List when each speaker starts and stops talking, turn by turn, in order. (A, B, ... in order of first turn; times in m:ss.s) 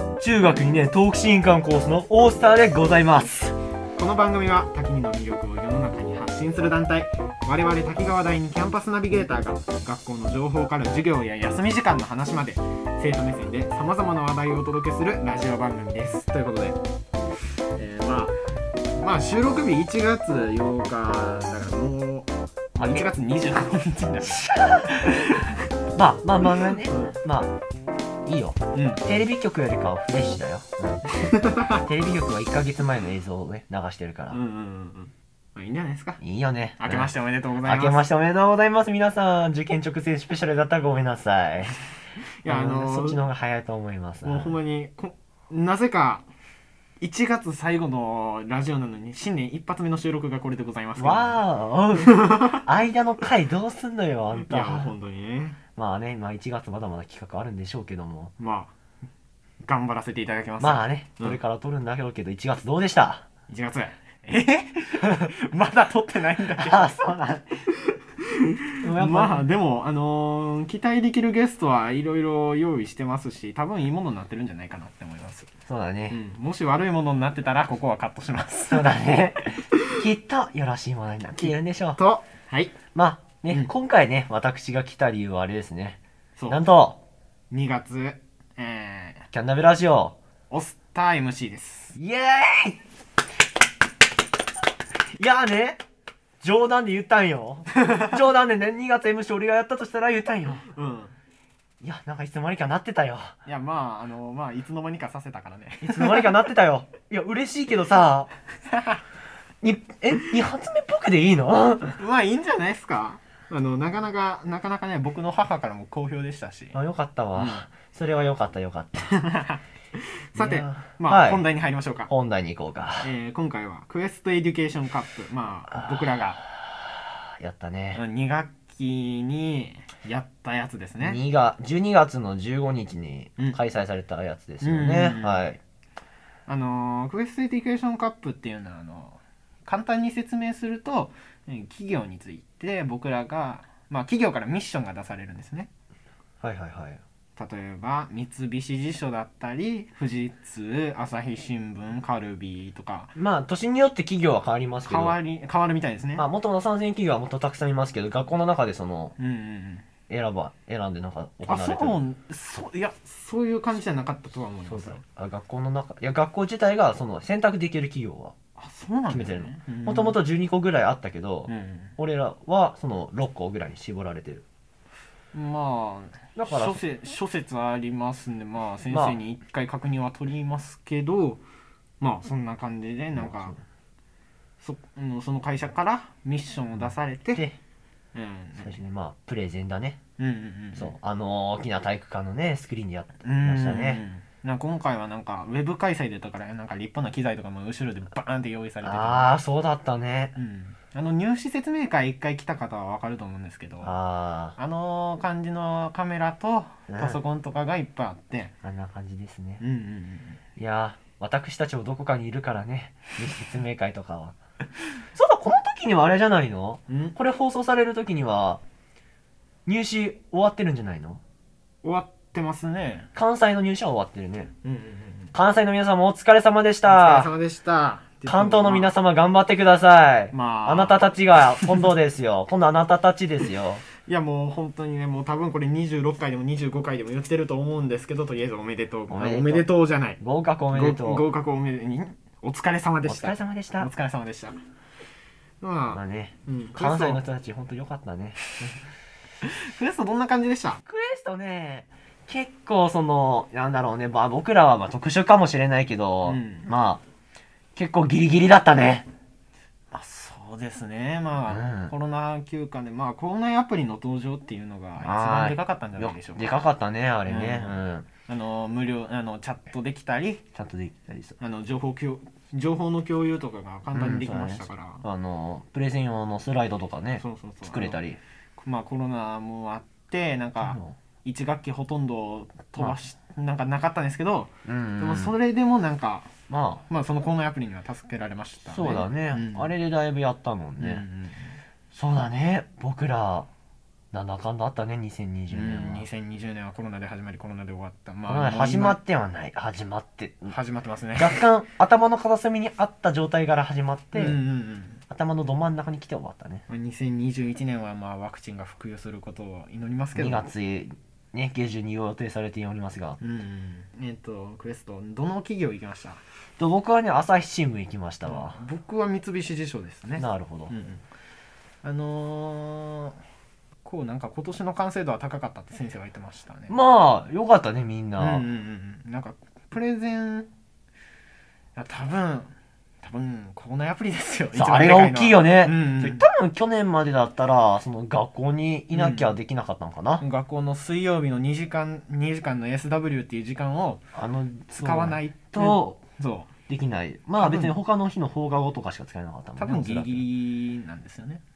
0:00.2-0:03.6 A
0:04.0-0:16.8 B
0:17.8-0:18.4 B
0:19.0-0:24.5 B
0:22.8-0:23.1 A
0:24.3-0:25.4 A
0:25.0-0:25.5 B
0:26.0-0:27.5 A
0:26.4-0:27.2 B
0:28.3-0:31.1 A
0:28.7-0:29.0 B
0:31.2-0:31.8 B
0:31.7-0:34.4 A
0:34.3-0:36.2 B
0:36.2-0:37.1 A
0:36.8-0:38.1 B
0:37.6-0:41.8 A
0:42.4-0:43.2 B
0:42.4-0:44.6 A
0:44.2-0:46.3 B
0:47.0-0:51.4 B
0:51.0-0:54.9 A
0:52.0-0:52.6 B
0:54.4-0:55.6 B
0:55.8-0:58.3 A
0:58.4-0:58.7 B
0:59.6-1:01.4 B
1:00.6-1:03.3 A
1:03.5-1:06.9 B
1:06.6-1:07.5 A
1:07.8-1:15.5 B
1:08.8-1:09.4 A
1:15.7-1:16.2 A
1:16.1-1:19.0 B
1:18.7-1:22.0 A
1:21.4-1:22.8 B
1:22.9-1:27.0 A
1:27.5-1:29.3 B
1:29.3-1:30.2 A
1:30.5-1:32.0 B
1:32.0-1:32.8 A
1:35.2-1:35.8 A
1:36.4-1:40.7 A
1:40.7-1:41.2 B
1:41.8-1:43.4 A
1:43.4-1:46.3 B
1:45.8-1:48.3 A
1:48.7-1:49.0 B
1:49.6-1:52.0 A
1:52.0-1:56.8 B
1:56.7-1:59.1 A
1:57.4-1:57.6 B
1:59.0-2:02.1 B
2:00.4-2:01.4 A
2:02.1-2:03.1 A
2:03.0-2:06.4 B
2:07.4-2:08.0 A
2:08.0-2:11.2 B
2:11.0-2:15.6 A
2:14.6-2:15.5 B
2:16.5-2:25.7 B
2:26.4-2:27.0 A
2:27.4-2:33.1 B
2:33.2-2:35.2 A
2:34.8-2:36.3 B
2:36.2-2:39.2 A
2:39.2-2:39.8 B
2:40.1-2:42.0 A
2:41.4-2:45.0 B
2:44.7-2:48.3 A
2:48.6-2:50.2 B
2:49.1-2:54.4 A
2:51.5-2:52.0 B
2:55.3-3:01.4 B
2:56.4-2:56.8 A
2:58.9-2:59.2 A
3:02.0-3:03.6 B
3:03.2-3:03.6 A
3:04.6-3:07.5 B
3:06.8-3:07.6 A
3:08.1-3:08.8 B
3:08.6-3:10.0 A
3:10.2-3:11.0 B
3:10.8-3:14.0 A
3:13.2-3:19.3 B
3:18.8-3:20.4 A
3:20.4-3:24.0 B
3:23.8-3:24.6 A
3:24.6-3:28.5 B
3:26.9-3:27.2 A
3:28.6-3:29.6 A
3:29.6-3:30.4 B
3:30.6-3:34.4 A
3:35.2-3:38.6 A
3:36.9-3:37.2 B
3:39.7-3:41.2 A
3:41.8-3:43.1 B
3:43.2-3:44.5 A
3:44.6-3:45.3 B
3:45.3-3:47.3 A
3:46.9-3:48.9 B
3:48.3-3:53.8 A
3:50.3-3:51.0 B
3:51.6-3:51.9 B
3:54.0-4:00.2 B
3:59.1-3:59.7 A
4:00.2-4:01.3 A
4:00.7-4:04.6 B
4:03.0-4:03.9 A
4:05.6-4:07.2 B
4:05.9-4:08.4 A
4:09.4-4:10.8 B
4:10.9-4:17.0 A
4:16.2-4:16.7 B
4:17.8-4:19.1 A
4:19.9-4:26.6 B
4:21.5-4:21.9 A
4:25.0-4:28.1 A
4:27.3-4:30.4 B
4:30.6-4:31.4 A
4:31.4-4:35.0 B
4:33.9-4:38.2 A
4:37.2-4:38.0 B
4:38.6-4:46.3 B
4:40.6-4:41.0 A
4:44.6-4:45.4 A
4:46.5-4:46.8 A
4:46.9-4:49.7 B
4:48.7-4:51.0 A
4:50.8-4:51.6 B
4:51.9-4:53.5 A
4:54.1-4:56.1 A
4:55.5-4:59.0 B
4:58.3-5:00.5 A
5:00.5-5:01.4 B
5:01.2-5:04.4 A
5:04.1-5:05.0 B
5:05.1-5:06.6 A
5:06.7-5:10.5 B
5:10.2-5:13.2 A
5:13.2-5:16.2 B
5:16.6-5:18.6 A
5:18.2-5:21.0 B
5:20.2-5:20.7 A
5:21.8-5:23.2 B
5:23.8-5:26.8 B
5:26.7-5:28.4 A
5:28.2-5:30.5 B
5:31.8-5:36.2 B
5:34.5-5:40.2 A
5:38.9-5:39.3 B
5:40.2-5:44.0 B
5:44.1-5:46.0 A
5:44.8-5:46.5 B
5:46.7-5:50.2 A
5:47.4-5:47.8 B
5:49.6-5:51.4 B